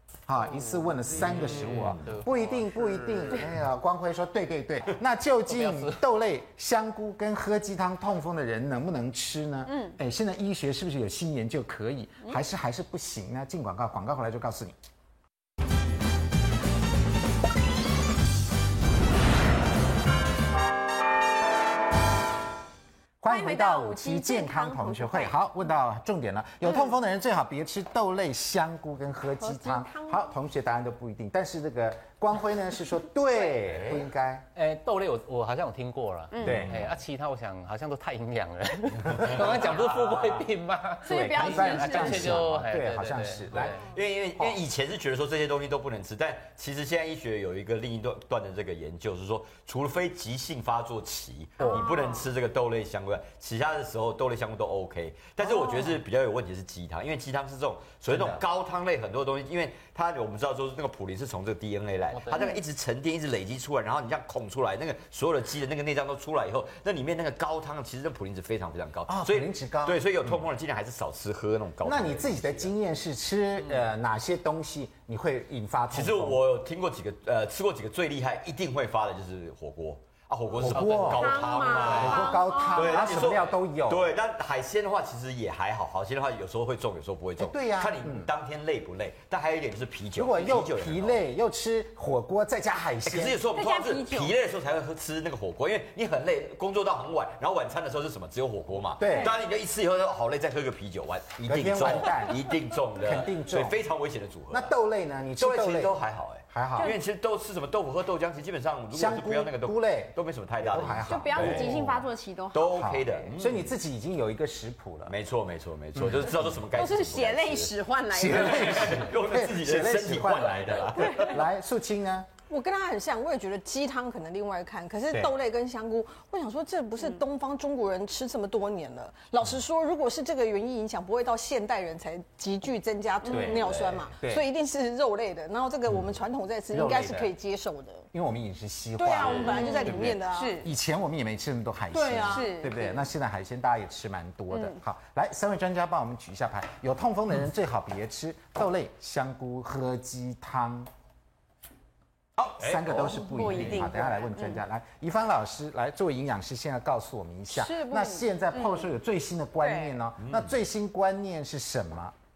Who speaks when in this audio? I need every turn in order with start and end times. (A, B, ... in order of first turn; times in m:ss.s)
0:00.3-0:14.8 A
0:00.8-0:03.4 B
0:05.5-0:06.0 B
0:09.7-0:10.0 C
0:23.2-0:34.5 A
0:23.3-0:25.4 C
0:29.4-0:30.3 C
0:34.6-0:43.9 B
0:36.3-0:36.6 C
0:36.4-0:36.9 A
0:36.6-0:36.9 D
0:39.2-0:39.7 A
0:41.0-0:42.4 C
0:41.0-0:43.8 A
0:43.8-1:12.7 D
0:51.6-0:52.3 C
0:58.1-0:58.4 A
1:02.1-1:02.5 B
1:09.1-1:10.4 A
1:11.8-1:16.4 A
1:15.9-1:31.2 D
1:20.6-1:24.1 A
1:21.1-1:23.2 C
1:27.4-1:28.3 A
1:30.2-1:33.4 A
1:33.0-1:44.7 D
1:33.5-1:34.4 C
1:39.0-1:39.4 A
1:41.4-1:43.8 A
1:44.5-1:47.0 A
1:45.4-1:52.0 D
1:48.9-1:52.1 A
1:51.0-1:53.3 C
1:52.5-1:53.7 D
1:52.7-1:55.2 A
1:55.1-2:01.4 D
1:56.0-1:56.6 A
1:56.7-1:58.9 C
1:58.1-2:02.3 A
2:01.0-2:01.3 C
2:02.5-2:18.1 E
2:13.2-2:13.6 C
2:13.3-2:14.5 A
2:13.5-2:14.1 D
2:16.7-2:17.3 A
2:18.1-2:30.9 A
2:19.0-2:20.6 E
2:19.2-2:20.7 C
2:19.2-2:19.6 D
2:21.9-2:22.5 E
2:22.0-2:23.0 C
2:32.4-2:42.2 A
2:32.6-2:33.9 D
2:33.0-2:34.6 C
2:37.5-2:38.9 C
2:39.6-2:40.0 C
2:40.2-2:40.6 D